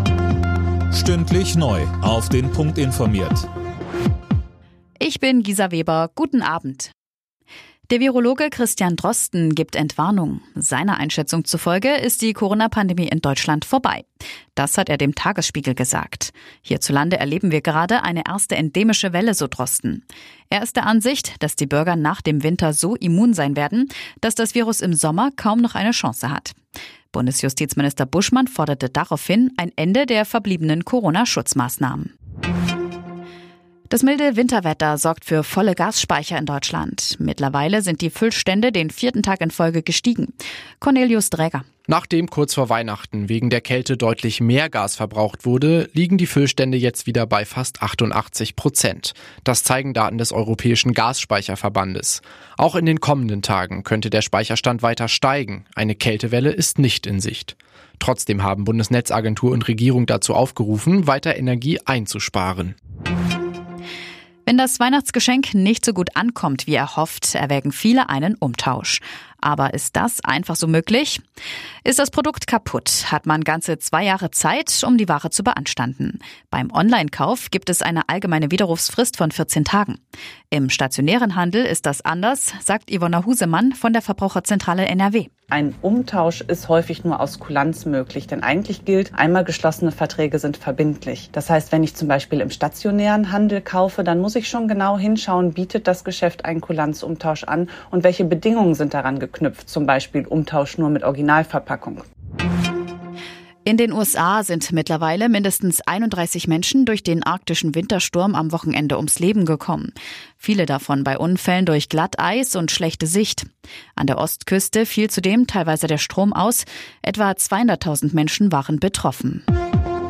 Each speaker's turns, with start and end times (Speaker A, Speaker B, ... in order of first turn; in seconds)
Speaker A: 0.9-3.5
Speaker B: 5.0-6.9, 7.9-26.6, 27.1-32.1, 33.9-41.7, 64.5-71.2, 71.8-80.0, 80.5-85.3, 103.7-119.4
Speaker C: 41.9-62.8
Speaker D: 85.5-102.1